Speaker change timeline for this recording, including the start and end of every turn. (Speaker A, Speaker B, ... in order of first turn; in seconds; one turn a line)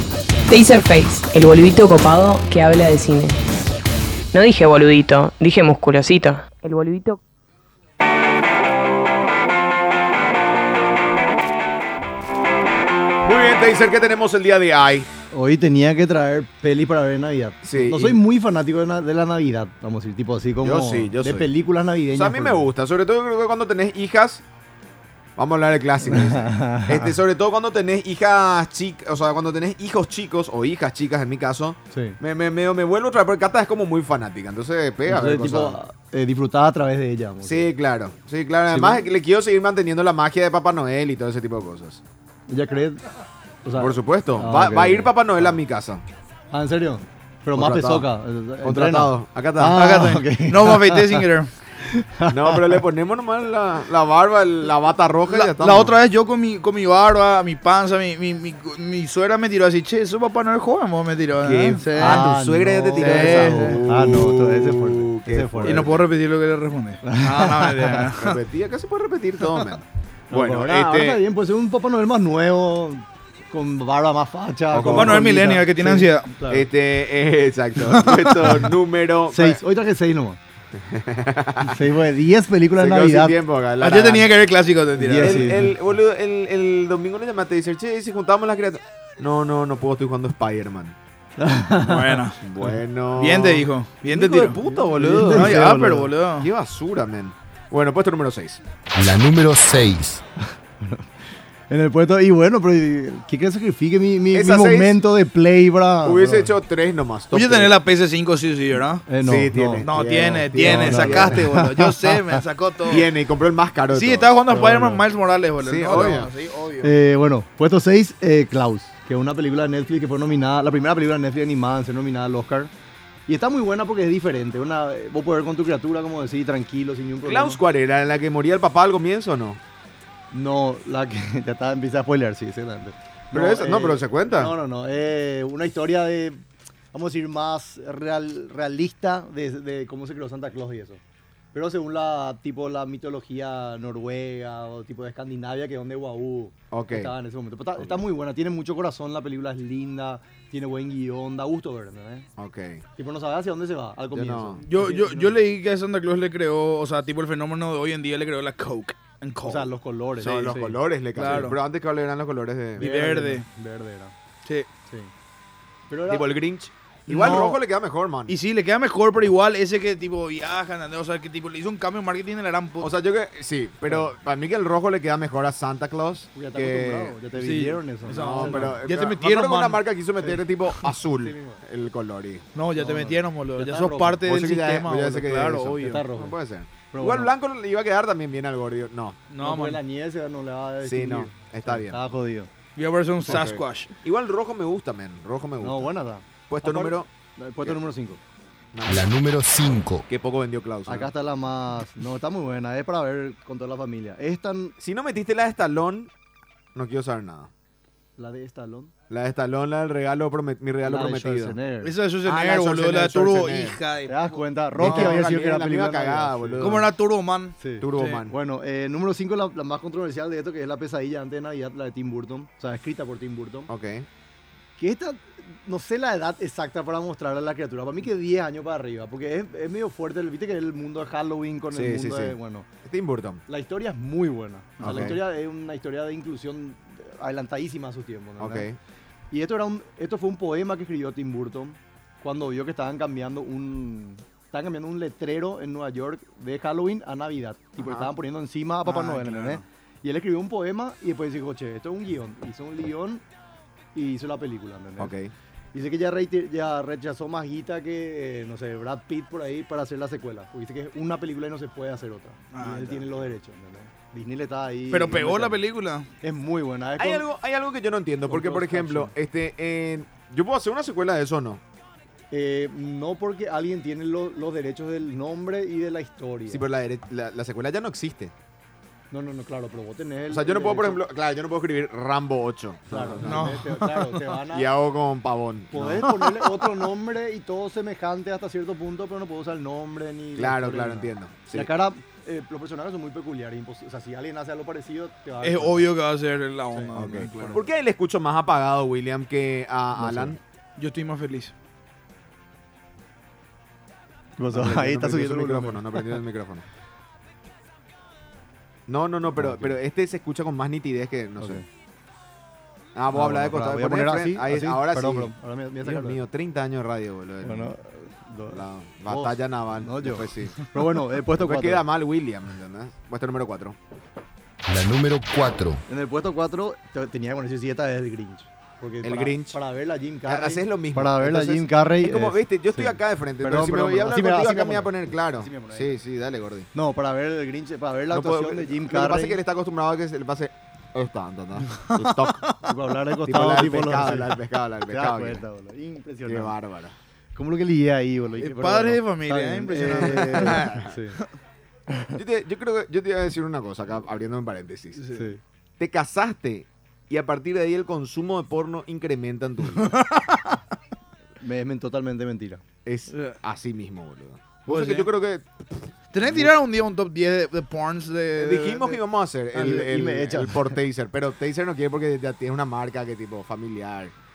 Speaker A: 0.5-3.4
Speaker A: 4.3-7.2
Speaker B: 13.2-15.1
Speaker C: 15.3-22.7
Speaker B: 17.6-18.2
Speaker B: 20.6-21.5
Speaker B: 22.1-24.4
Speaker B: 25.4-35.8
Speaker C: 26.0-27.2
Speaker C: 31.9-32.2
Speaker C: 35.0-37.7
Speaker B: 37.4-42.0
Speaker C: 38.7-39.1
Speaker C: 42.5-43.0
Speaker C: 43.6-45.5
Speaker B: 43.8-46.0
Speaker C: 46.5-52.8
Speaker B: 47.5-48.1
Speaker B: 48.6-50.2
Speaker D: 50.3-51.5
Speaker B: 52.3-56.0
Speaker D: 55.3-62.3
Speaker C: 61.4-66.0
Speaker B: 62.0-66.0
Speaker D: 62.9-63.8
Speaker D: 65.6-68.4
Speaker C: 67.0-68.1
Speaker B: 68.1-71.2
Speaker D: 69.4-69.7
Speaker C: 70.3-76.7
Speaker B: 74.7-75.2
Speaker D: 74.9-76.3
Speaker B: 76.5-79.6
Speaker D: 77.8-78.7
Speaker C: 79.3-80.4
Speaker B: 80.7-81.9
Speaker C: 81.6-83.4
Speaker B: 82.8-84.3
Speaker D: 83.8-85.5
Speaker C: 85.0-85.7
Speaker B: 85.2-90.9
Speaker C: 91.4-92.2
Speaker D: 91.8-92.4
Speaker B: 92.4-98.6
Speaker D: 93.2-96.5
Speaker C: 94.7-96.1
Speaker E: 98.9-100.2
Speaker C: 100.4-101.1
Speaker C: 101.7-106.5
Speaker B: 104.3-105.0
Speaker B: 106.0-107.7
Speaker D: 107.3-109.1
Speaker C: 109.1-109.9
Speaker B: 109.2-111.4
Speaker D: 109.8-113.1
Speaker C: 110.5-112.4
Speaker B: 112.9-114.3
Speaker D: 113.9-116.9
Speaker C: 114.5-115.0
Speaker B: 115.6-116.3
Speaker C: 115.9-116.2
Speaker C: 116.8-122.7
Speaker C: 123.3-127.6
Speaker B: 127.2-129.6
Speaker C: 130.3-136.4
Speaker B: 133.3-134.5
Speaker C: 136.9-141.0
Speaker C: 141.5-152.3
Speaker B: 146.7-147.1
Speaker B: 152.4-152.8
Speaker C: 153.0-155.4
Speaker B: 154.1-154.6
Speaker D: 154.7-159.7
Speaker C: 159.4-160.8
Speaker B: 160.2-162.9
Speaker D: 161.2-161.6
Speaker D: 162.8-163.4
Speaker C: 162.8-164.1
Speaker C: 165.9-166.3
Speaker B: 166.1-168.3
Speaker D: 167.1-167.6
Speaker C: 167.2-167.5
Speaker D: 168.3-172.9
Speaker B: 172.8-177.2
Speaker C: 173.9-174.1
Speaker C: 176.3-178.8
Speaker D: 177.4-179.8
Speaker B: 178.1-182.4
Speaker C: 180.2-181.6
Speaker D: 182.5-186.1
Speaker C: 182.8-184.2
Speaker B: 184.2-189.2
Speaker C: 185.8-186.4
Speaker C: 186.9-187.3
Speaker D: 189.3-189.8
Speaker C: 189.4-192.5
Speaker B: 190.8-192.0
Speaker D: 192.8-193.9
Speaker B: 193.2-195.9
Speaker C: 195.6-198.2
Speaker B: 196.5-197.1
Speaker B: 198.7-199.1
Speaker E: 198.8-200.1
Speaker B: 200.1-201.1
Speaker C: 200.9-204.7
Speaker B: 204.8-206.1
Speaker B: 206.7-207.5
Speaker C: 208.2-208.9
Speaker B: 209.1-211.6
Speaker C: 210.8-211.9
Speaker D: 211.8-215.2
Speaker B: 212.2-213.8
Speaker C: 214.1-216.9
Speaker B: 214.8-216.9
Speaker D: 216.6-218.2
Speaker C: 217.6-223.7
Speaker B: 217.8-218.3
Speaker B: 223.7-224.1
Speaker C: 224.8-232.7
Speaker B: 231.7-233.4
Speaker C: 233.5-238.7
Speaker D: 234.8-235.1
Speaker B: 234.8-235.2
Speaker B: 238.4-238.8
Speaker C: 239.3-253.2
Speaker B: 247.8-248.1
Speaker D: 248.8-249.6
Speaker C: 253.9-255.1
Speaker B: 255.0-255.3
Speaker C: 255.7-265.6
Speaker D: 262.5-263.2
Speaker D: 264.9-266.1
Speaker C: 266.2-267.3
Speaker B: 267.0-271.6
Speaker C: 268.3-269.1
Speaker C: 272.3-276.6
Speaker B: 276.5-278.3
Speaker C: 279.1-281.0
Speaker B: 280.3-283.6
Speaker C: 282.9-284.7
Speaker D: 283.2-284.2
Speaker B: 284.5-286.1
Speaker C: 285.7-295.9
Speaker D: 286.1-286.5
Speaker B: 290.4-291.7
Speaker D: 295.4-297.6
Speaker C: 296.7-297.6
Speaker B: 296.9-300.4
Speaker C: 299.9-300.4
Speaker D: 300.8-301.5
Speaker C: 304.4-306.2
Speaker B: 304.5-306.6
Speaker B: 308.9-311.6
Speaker C: 309.3-309.8
Speaker C: 311.4-311.6
Speaker B: 312.9-315.3
Speaker C: 313.1-316.2
Speaker B: 315.8-317.7
Speaker C: 317.4-321.8
Speaker B: 318.5-320.8
Speaker B: 321.4-323.8
Speaker E: 324.7-325.8
Speaker C: 325.9-336.0
Speaker B: 329.0-329.6
Speaker B: 330.2-336.7
Speaker C: 336.7-339.4
Speaker B: 338.1-342.5
Speaker D: 341.8-342.6
Speaker C: 342.6-346.6
Speaker B: 343.2-345.4
Speaker B: 346.2-346.9
Speaker C: 347.4-351.2
Speaker D: 348.4-351.2
Speaker B: 350.0-350.9
Speaker C: 351.9-352.2
Speaker B: 352.1-355.0
Speaker C: 355.1-355.4
Speaker B: 355.8-359.9
Speaker D: 359.8-360.6
Speaker C: 361.4-362.6
Speaker B: 362.8-366.5
Speaker D: 363.1-363.4
Speaker D: 364.7-365.1
Speaker D: 366.1-369.0
Speaker B: 368.4-374.1
Speaker C: 369.5-370.8